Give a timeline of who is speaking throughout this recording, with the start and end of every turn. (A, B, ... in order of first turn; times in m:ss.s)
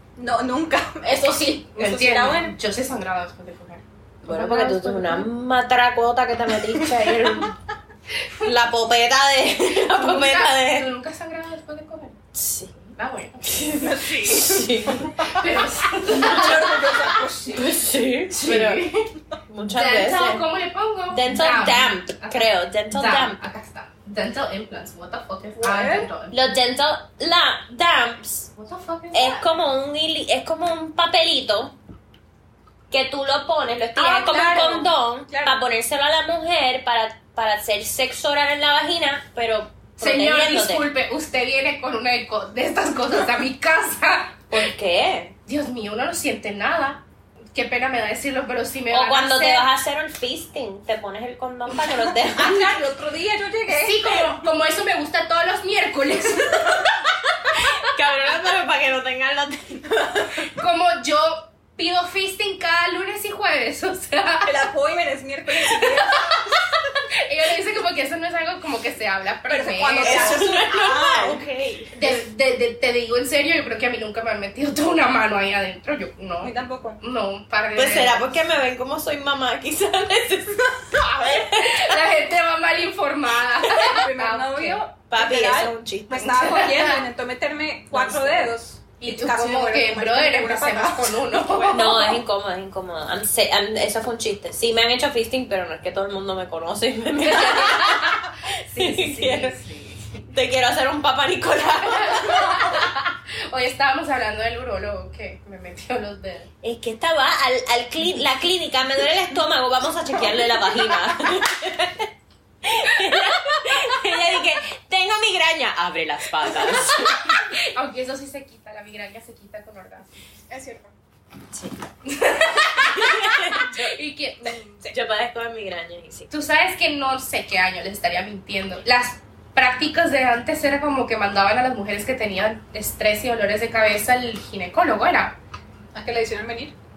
0:00.2-0:02.6 A
0:01.0-0:05.2 B
0:04.2-0:07.5 C
0:04.3-0:05.1 A
0:08.4-0:10.9 C
0:09.7-0:12.2 B
0:12.3-0:12.8 C
0:13.0-0:14.4 B
0:13.4-0:15.3 C
0:13.7-0:15.4 A
0:15.2-0:17.0 B
0:16.1-0:17.8 A
0:16.1-0:17.0 C
0:17.5-0:18.9 C
0:18.3-0:19.1 B
0:19.5-0:20.4 C
0:19.7-0:26.4 B
0:21.1-0:23.4 C
0:25.6-0:26.1 A
0:26.3-0:28.5 C
0:28.6-0:29.5 B
0:29.1-0:31.8 C
0:32.9-0:40.9 C
0:34.0-0:35.6 A
0:40.0-0:44.6 B
0:44.5-0:45.4 C
0:45.5-0:49.7 B
0:48.9-0:52.8 C
0:52.1-0:54.2 A
0:53.7-0:57.6 B
0:57.6-1:00.5 C
1:00.4-1:04.7 B
1:04.4-1:06.5 A
1:05.6-1:10.5 B
1:09.5-1:11.4 A
1:10.0-1:12.0 C
1:11.9-1:18.3 B
1:16.4-1:17.0 A
1:17.8-1:22.0 C
1:21.0-1:24.8 B
1:23.7-1:32.0 A
1:25.1-1:26.4 C
1:26.2-1:27.0 B
1:27.9-1:28.5 C
1:29.0-1:32.2 B
1:31.7-1:39.6 C
1:37.2-1:40.2 B
1:40.3-1:42.9 C
1:41.9-1:46.5 B
1:46.6-1:52.1 C
1:52.6-1:57.4 C
1:52.8-1:53.8 B
1:56.5-2:00.1 B
2:00.5-2:00.9 A
2:02.0-2:04.9 B
2:02.8-2:04.0 C
2:04.9-2:06.3 C
2:06.3-2:15.4 B
2:15.9-2:16.8 A